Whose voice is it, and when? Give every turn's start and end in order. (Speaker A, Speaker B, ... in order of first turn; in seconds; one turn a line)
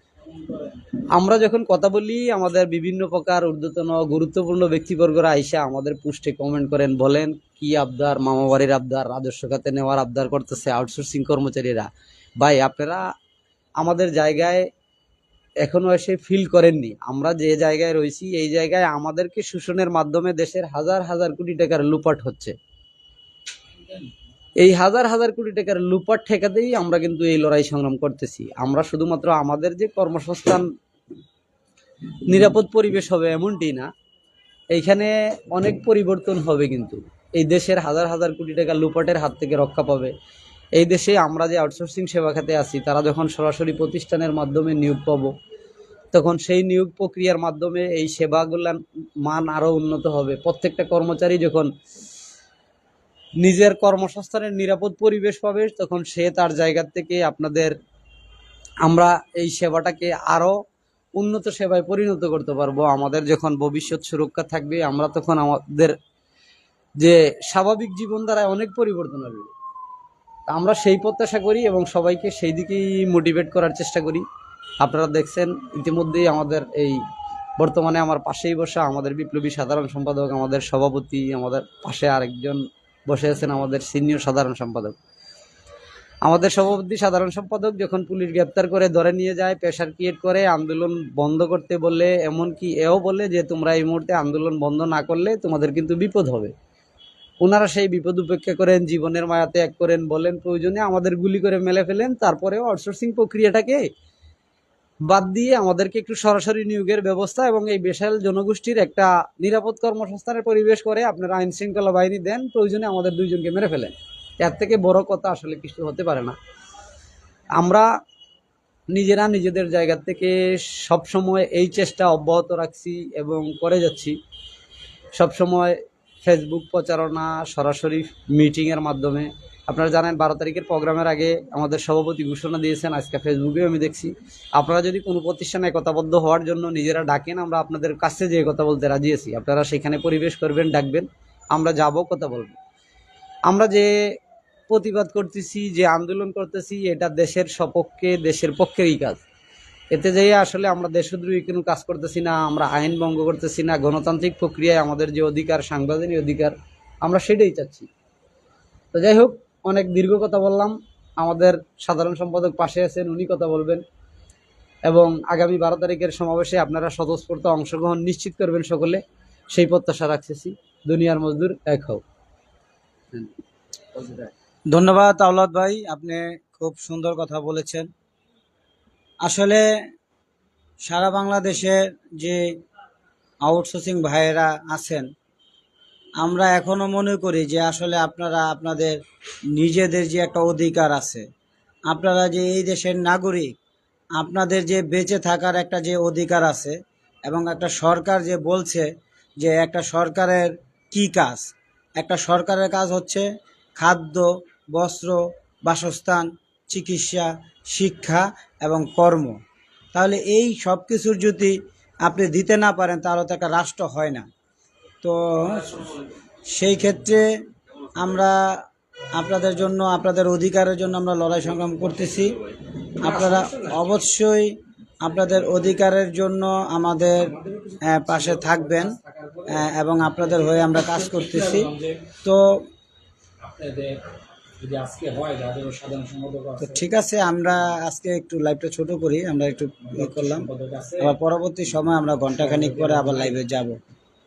Speaker A: 1.1-11.9
Speaker A: 12.4-13.0
Speaker A: 13.8-14.7
Speaker A: 15.6-22.5
Speaker B: 23.8-24.2
Speaker A: 24.6-30.6
Speaker A: 32.3-33.9
Speaker A: 34.7-40.1
Speaker A: 40.8-45.3
Speaker A: 46.1-51.7
Speaker A: 53.4-57.7
Speaker A: 58.9-60.5
Speaker A: 61.1-66.0
Speaker A: 67.0-69.5
Speaker A: 70.5-74.2
Speaker A: 74.8-77.0
Speaker A: 77.6-85.0
Speaker A: 86.2-96.5
Speaker A: 97.4-103.9
Speaker A: 105.1-116.4
Speaker A: 117.6-117.9
Speaker A: 118.9-124.2
Speaker A: 125.1-142.6
Speaker A: 143.5-143.9
Speaker A: 144.7-149.2
Speaker A: 149.9-157.9
Speaker A: 158.9-163.8
Speaker A: 164.9-169.0
Speaker A: 169.5-172.0
Speaker A: 173.9-174.3
Speaker C: 174.7-177.9
Speaker C: 179.2-179.6
Speaker C: 180.8-182.4
Speaker C: 183.4-185.1
Speaker C: 186.2-189.0
Speaker C: 189.6-191.2
Speaker C: 191.9-193.5
Speaker C: 194.2-196.7
Speaker C: 197.3-198.9
Speaker C: 199.4-203.2
Speaker C: 203.8-209.4
Speaker C: 209.9-214.2
Speaker C: 215.0-215.8
Speaker C: 216.5-217.4
Speaker C: 217.9-222.3
Speaker B: 219.0-219.7
Speaker B: 220.8-222.3
Speaker C: 223.0-227.3
Speaker B: 223.0-224.0
Speaker B: 225.0-225.8
Speaker B: 227.2-232.1
Speaker C: 227.8-229.0
Speaker C: 229.5-231.7
Speaker C: 232.2-232.6
Speaker B: 233.4-234.0
Speaker B: 234.6-236.8
Speaker C: 236.6-240.5
Speaker B: 239.8-241.2
Speaker C: 241.0-243.8
Speaker B: 242.3-243.4